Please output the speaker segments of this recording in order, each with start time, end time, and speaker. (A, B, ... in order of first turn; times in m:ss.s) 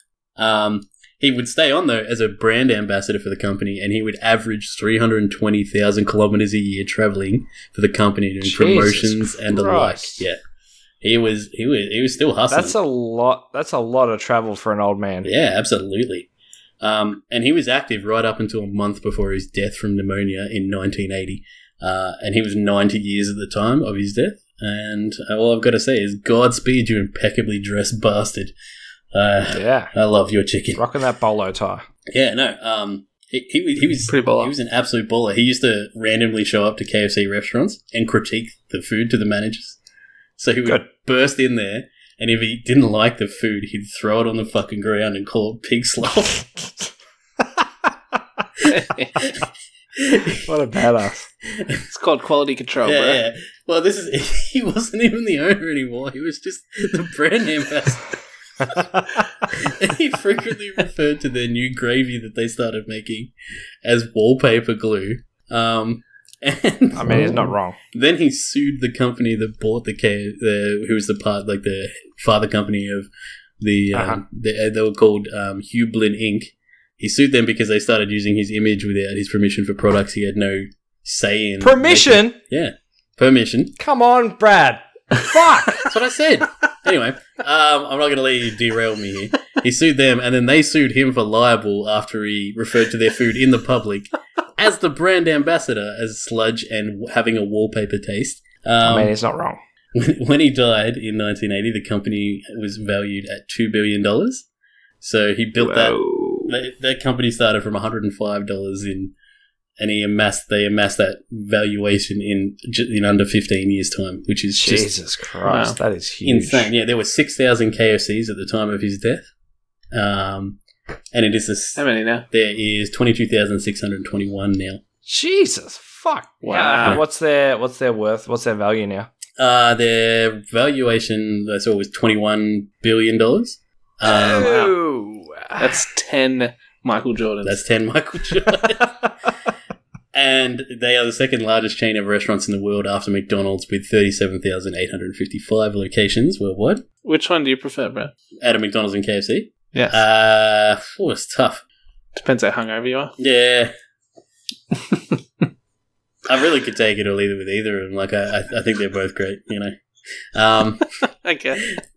0:00.4-0:10.4 A
0:08.4-0:10.2 B
0:11.0-0:12.8 A
0:12.5-0:15.3 B
0:15.2-0:16.3 A
0:16.8-0:28.5 A
0:29.1-0:30.8 A
0:29.5-0:29.9 B
0:30.7-0:31.8 B
0:32.1-0:39.8 A
0:34.1-0:34.5 C
0:40.4-0:46.4 A
0:48.6-0:49.2 C
0:49.2-0:49.4 A
0:50.0-0:50.4 A
0:50.4-0:51.3 B
0:51.5-0:51.8 A
0:51.9-0:53.2 C
0:52.8-0:58.2 A
0:58.6-0:59.2 B
0:59.5-1:03.3 A
1:03.8-1:13.1 A
1:06.9-1:07.8 B
1:13.6-1:23.8 A
1:13.9-1:14.2 B
1:21.6-1:22.4 B
1:23.8-1:25.9 B
1:25.8-1:39.1 A
1:38.8-1:39.6 B
1:39.9-1:44.5 A
1:45.0-1:49.1 A
1:45.6-1:46.5 B
1:49.8-1:54.9 A
1:54.5-1:56.7 B
1:55.4-1:55.8 C
1:56.2-1:59.2 A
1:59.9-2:00.6 A
2:01.1-2:04.8 A
2:01.8-2:02.2 C
2:05.0-2:09.1 B
2:06.4-2:07.0 C
2:09.4-2:14.6 A
2:14.0-2:15.7 B
2:14.3-2:14.7 C
2:15.6-2:17.6 C
2:17.4-2:19.0 A
2:20.1-2:26.8 A
2:27.0-2:28.1 C
2:28.4-2:31.6 A
2:29.7-2:30.0 C
2:32.1-2:33.1 C
2:33.2-2:33.7 A
2:36.3-2:39.7 A
2:40.3-2:40.9 A
2:41.2-2:41.6 C